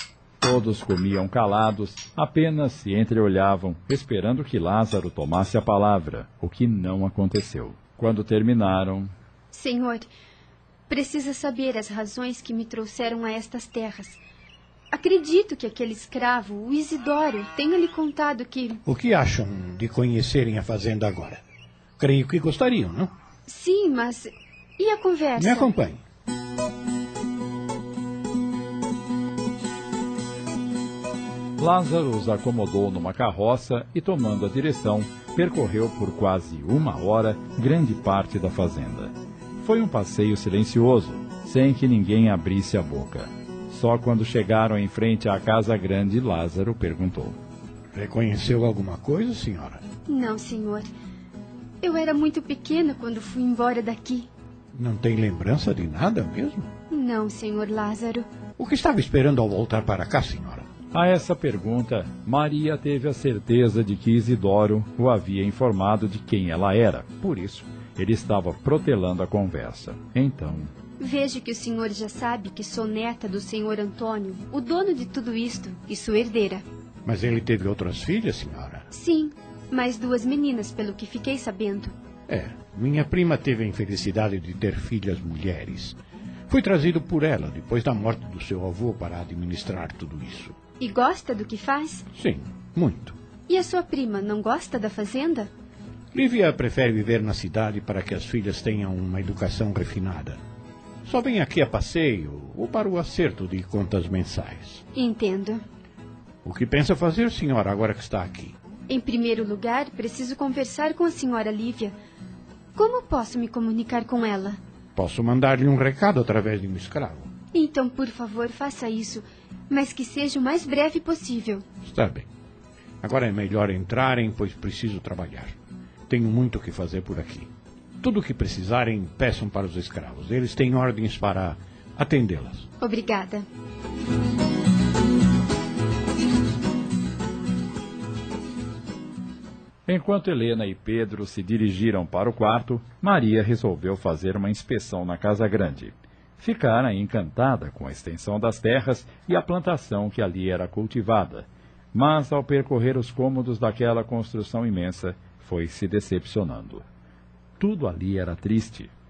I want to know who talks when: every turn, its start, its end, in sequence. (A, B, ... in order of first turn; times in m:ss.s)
0:00.4-0:09.1 A
0:09.5-0:10.1 B
0:10.9-0:14.2 B
0:14.9-0:18.8 B
0:18.9-0:21.4 C
0:22.0-0:23.1 C
0:23.5-0:25.7 B
0:25.4-0:26.0 C
0:31.6-0:47.4 A
0:47.9-0:49.8 C
0:50.1-0:50.9 B
0:51.8-0:54.3 B
0:54.8-0:56.7 C
0:56.9-0:58.3 B
0:58.6-1:00.7 C
1:00.9-1:10.7 A
1:11.0-1:16.6 B
1:17.1-1:18.9 C
1:18.9-1:21.9 B
1:22.3-1:26.0 C
1:26.5-1:30.6 C
1:30.8-1:32.1 B
1:32.2-1:33.2 C
1:33.5-1:35.5 B
1:36.1-1:40.4 C
1:41.1-1:44.8 C
1:45.0-1:45.6 B
1:46.4-1:48.6 C
1:48.9-1:51.9 B
1:52.8-1:54.6 B
1:55.0-1:57.3 C
1:57.5-2:01.6 B
2:01.9-2:02.3 C
2:03.0-2:05.6 C
2:06.1-2:07.5 C
2:08.0-2:12.7 C
2:12.8-2:13.5 B
2:19.9-2:36.8 A
2:37.6-2:38.9 A